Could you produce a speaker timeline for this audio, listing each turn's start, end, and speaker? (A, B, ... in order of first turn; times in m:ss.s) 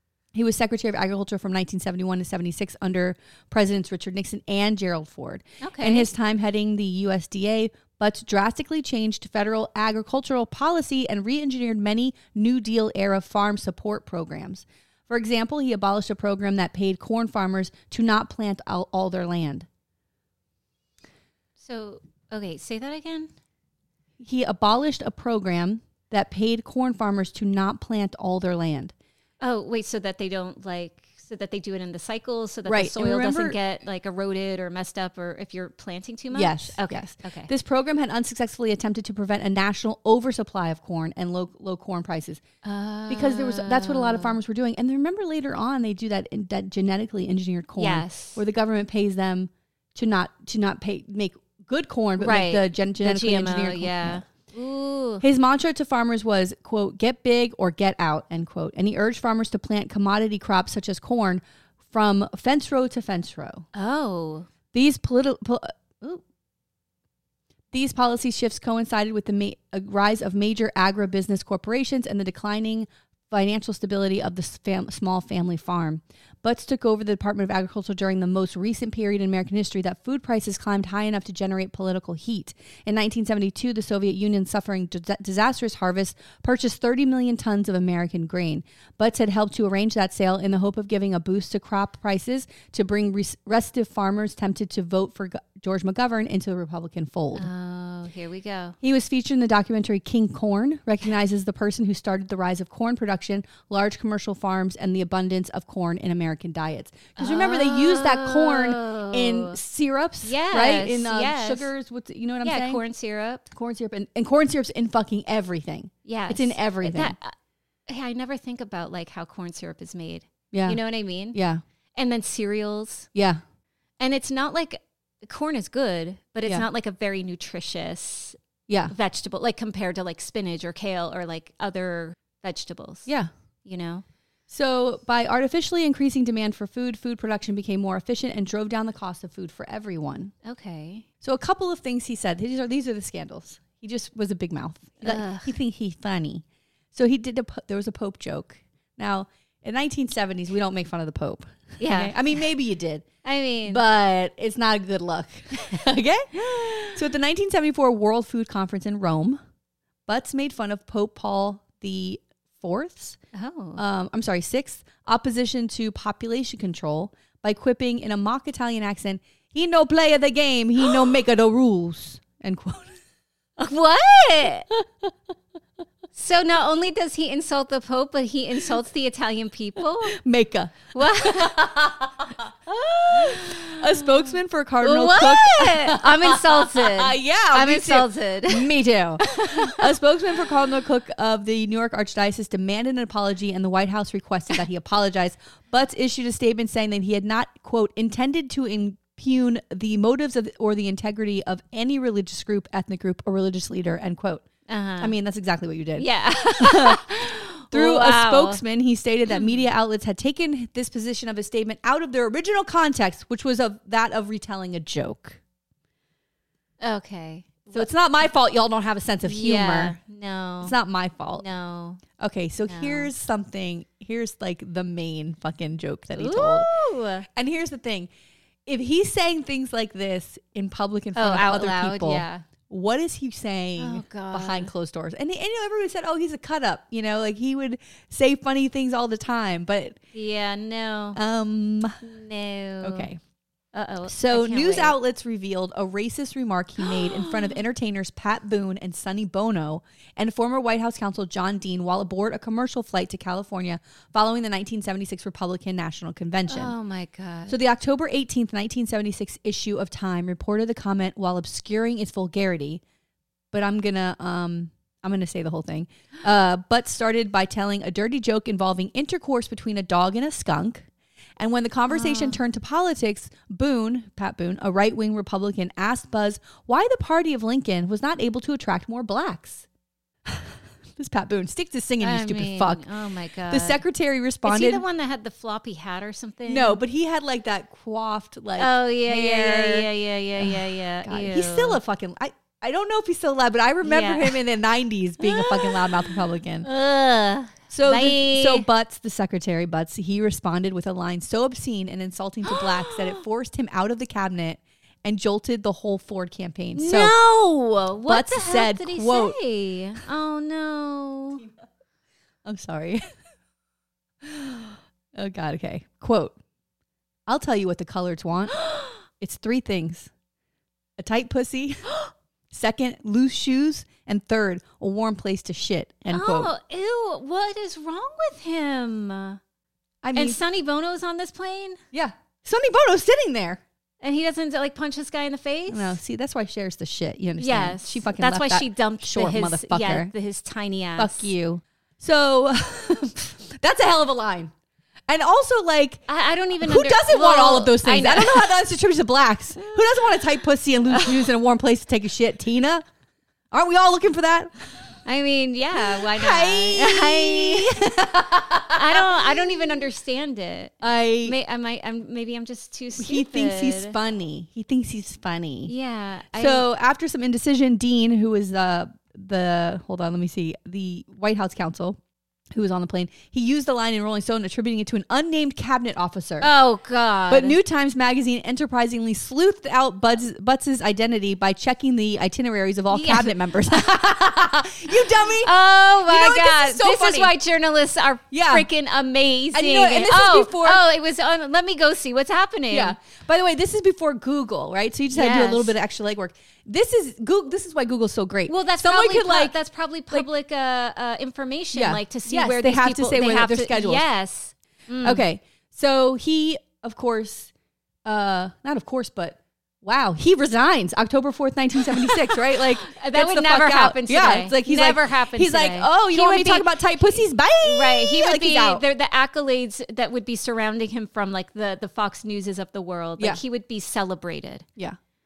0:00.3-0:19.7 A
0:05.6-0:06.1 B
0:21.6-0:23.3 B
0:24.2-0:28.9 A
0:29.4-0:37.5 B
0:32.7-0:33.6 A
0:36.3-0:42.4 A
0:42.6-0:44.4 B
0:43.1-0:54.2 A
0:47.8-0:48.4 B
0:52.2-0:55.2 B
0:55.2-1:03.6 A
1:03.7-1:04.5 B
1:04.7-1:06.2 A
1:07.7-1:37.5 A
1:37.4-1:38.8 B
1:38.8-1:52.8 A
1:47.2-1:49.6 B
1:50.2-1:51.7 B
1:52.4-1:53.5 B
1:53.5-1:57.2 A
1:56.0-1:57.4 B
1:57.9-2:01.4 B
2:00.5-2:00.8 A
2:01.3-2:01.6 A
2:02.0-2:03.1 B
2:03.2-2:03.4 A
2:04.0-2:08.4 B
2:08.7-2:08.9 A
2:08.9-2:13.1 B
2:13.6-2:14.0 B
2:14.5-2:20.3 A
2:20.4-2:21.1 B
2:21.2-2:33.1 A
2:25.0-2:25.6 B
2:31.8-2:32.2 B
2:33.2-2:33.8 B
2:33.7-2:39.4 A
2:40.1-2:43.2 A
2:43.3-2:43.8 B
2:43.8-2:53.0 A
2:53.6-2:54.7 B
2:56.2-3:00.2 B
3:00.0-3:24.5 A
3:00.9-3:01.8 B
3:03.1-3:04.0 B
3:04.8-3:09.9 B
3:24.7-3:25.1 B
3:25.0-3:26.1 A
3:26.0-3:28.6 B
3:26.6-3:27.0 A
3:27.7-3:35.4 A
3:29.3-3:29.6 B
3:36.8-3:37.9 B
3:37.7-3:40.0 A
3:39.2-3:40.8 B
3:40.6-3:41.4 A
3:41.4-3:42.0 B
3:42.2-3:46.7 A
3:42.7-3:43.1 B
3:46.2-3:47.3 B
3:47.3-3:48.1 A
3:48.7-4:00.0 A
3:51.2-3:52.4 B
3:53.8-3:54.7 B
4:00.1-4:01.2 B
4:01.2-4:02.0 A
4:02.0-4:03.1 B
4:02.8-4:03.2 A
4:03.7-4:05.0 B
4:04.1-4:16.7 A
4:06.8-4:07.5 B
4:16.5-4:17.6 B
4:17.5-4:22.8 A
4:23.5-4:30.9 A
4:31.4-4:39.6 A
4:31.9-4:32.4 B
4:40.2-4:42.8 A
4:42.0-4:43.8 B
4:43.5-4:44.8 A
4:44.4-4:46.8 B
4:46.5-4:56.7 A
4:48.6-4:51.8 B
4:53.8-4:54.4 B
4:55.2-4:55.9 B
4:56.6-4:58.7 B
4:57.7-5:07.2 A
5:02.6-5:03.2 B
5:06.8-5:11.4 B
5:08.1-5:09.4 A
5:12.4-5:13.0 A
5:14.2-5:16.4 A
5:17.3-5:20.1 A
5:18.6-5:19.0 B
5:21.0-5:21.9 A
5:22.5-5:26.5 A
5:26.1-5:29.4 B
5:30.0-5:30.4 A
5:30.2-5:31.8 B
5:31.9-5:33.6 A
5:34.0-5:36.0 B
5:35.7-5:40.1 A
5:37.4-5:41.3 B
5:41.0-5:44.5 A
5:45.1-5:46.0 A
5:46.1-5:48.6 B
5:46.6-5:52.8 A
5:53.5-5:54.5 A
5:55.0-5:57.9 B
5:55.8-5:59.6 A
5:58.6-6:04.0 B
6:00.8-6:01.4 A
6:03.0-6:05.7 A
6:05.7-6:06.7 B
6:06.4-6:12.0 A
6:12.5-6:16.5 A
6:16.4-6:17.6 B
6:17.3-6:27.4 A
6:22.9-6:23.3 B
6:25.4-6:33.0 B
6:28.3-6:28.7 A
6:29.5-6:30.8 A
6:32.7-6:39.6 A
6:35.1-6:35.7 B
6:38.5-6:45.2 B
6:41.7-6:44.0 A
6:45.0-6:47.5 A
6:48.0-6:58.8 A
6:52.3-7:04.7 B